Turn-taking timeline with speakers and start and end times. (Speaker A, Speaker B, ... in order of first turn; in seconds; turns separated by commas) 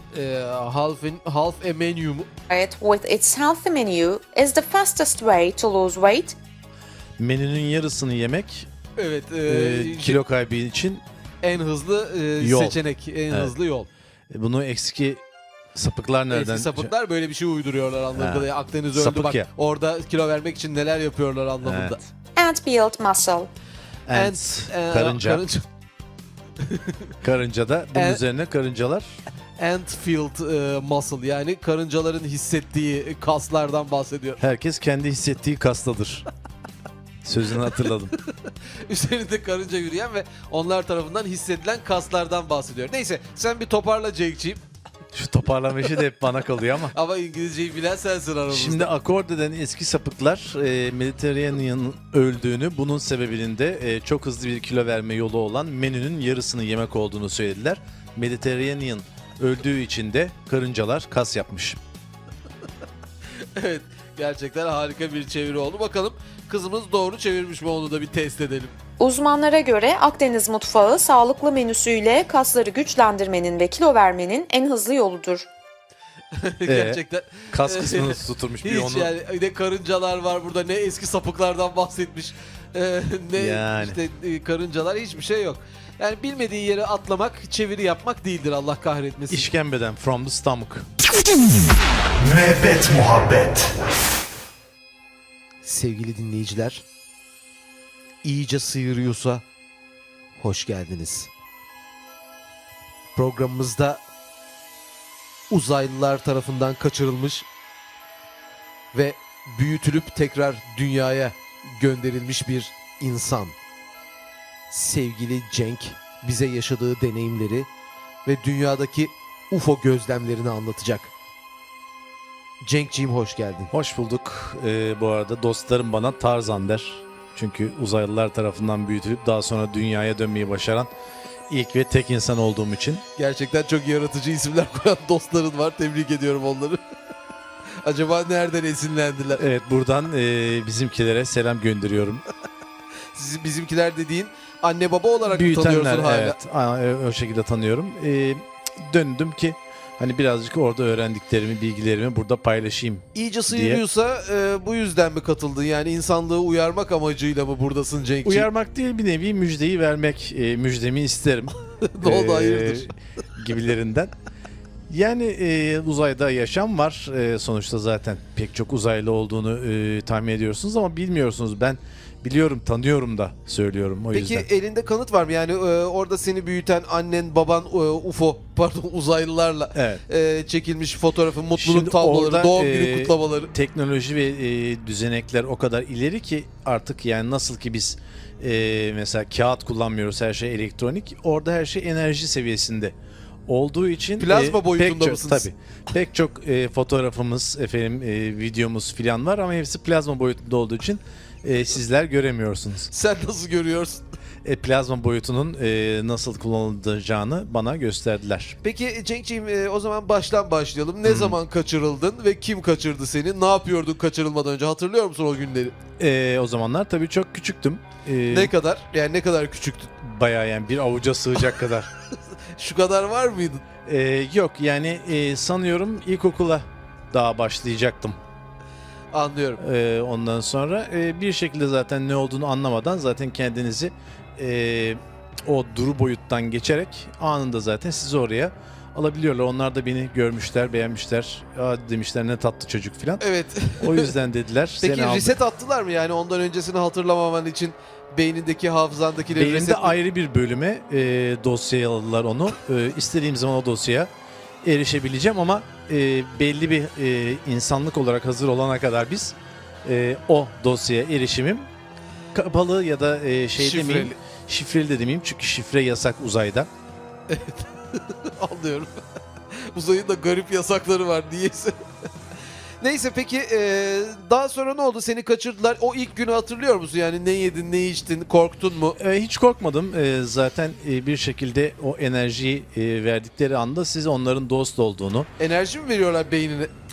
Speaker A: 0.1-2.3, Speaker B: 2.5-6.4, Speaker C: 7.2-8.7, Speaker A: 9.0-10.2, Speaker C: 9.5-11.0, Speaker A: 11.4-13.9, Speaker C: 12.4-12.8, Speaker C: 14.3-15.2, Speaker C: 15.7-16.9, Speaker A: 16.3-22.1, Speaker C: 18.1-19.5, Speaker C: 21.6-22.0, Speaker B: 22.4-23.5, Speaker C: 24.1-25.4, Speaker A: 24.1-25.6, Speaker A: 26.6-27.1, Speaker C: 27.2-29.1, Speaker A: 27.9-28.2, Speaker A: 29.6-34.4, Speaker C: 34.4-36.2, Speaker C: 37.2-38.1, Speaker A: 37.8-44.6, Speaker C: 45.1-46.9, Speaker A: 46.9-48.9, Speaker C: 48.5-61.8, Speaker A: 63.4-68.8, Speaker B: 69.0-75.5, Speaker A: 76.3-89.5, Speaker C: 76.7-79.1, Speaker C: 83.3-84.0, Speaker C: 89.3-90.9, Speaker A: 92.2-93.7, Speaker A: 95.6-96.8, Speaker A: 98.2-99.4, Speaker A: 100.4-101.3, Speaker A: 103.2-104.0, Speaker A: 105.5-107.5, Speaker A: 108.9-113.5, Speaker A: 114.7-117.7, Speaker A: 118.2-121.1, Speaker A: 122.6-123.7, Speaker C: 123.7-130.9, Speaker C: 131.5-133.0, Speaker A: 133.2-136.8, Speaker A: 137.8-139.4, Speaker C: 139.4-142.2, Speaker A: 143.1-146.4, Speaker C: 145.3-153.8, Speaker A: 153.1-158.5, Speaker C: 158.2-164.1, Speaker A: 161.8-162.9, Speaker C: 164.9-174.5, Speaker A: 174.1-183.5, Speaker C: 179.7-180.0, Speaker C: 181.6-192.9, Speaker C: 193.5-202.9, Speaker A: 194.2-195.5, Speaker A: 202.9-204.0, Speaker C: 204.4-208.6, Speaker A: 208.6-215.7, Speaker C: 211.0-211.4, Speaker C: 216.0-218.5, Speaker A: 218.3-219.9, Speaker C: 220.0-221.9, Speaker A: 222.5-223.6, Speaker C: 223.8-228.2, Speaker A: 229.1-229.6, Speaker C: 229.6-243.2, Speaker A: 243.2-244.1, Speaker C: 243.8-245.4, Speaker A: 244.8-250.0, Speaker C: 249.3-254.1, Speaker C: 254.6-261.7, Speaker C: 262.3-266.7, Speaker A: 263.6-264.2, Speaker A: 267.3-271.8, Speaker A: 272.8-279.0, Speaker C: 279.0-285.3, Speaker A: 285.4-286.7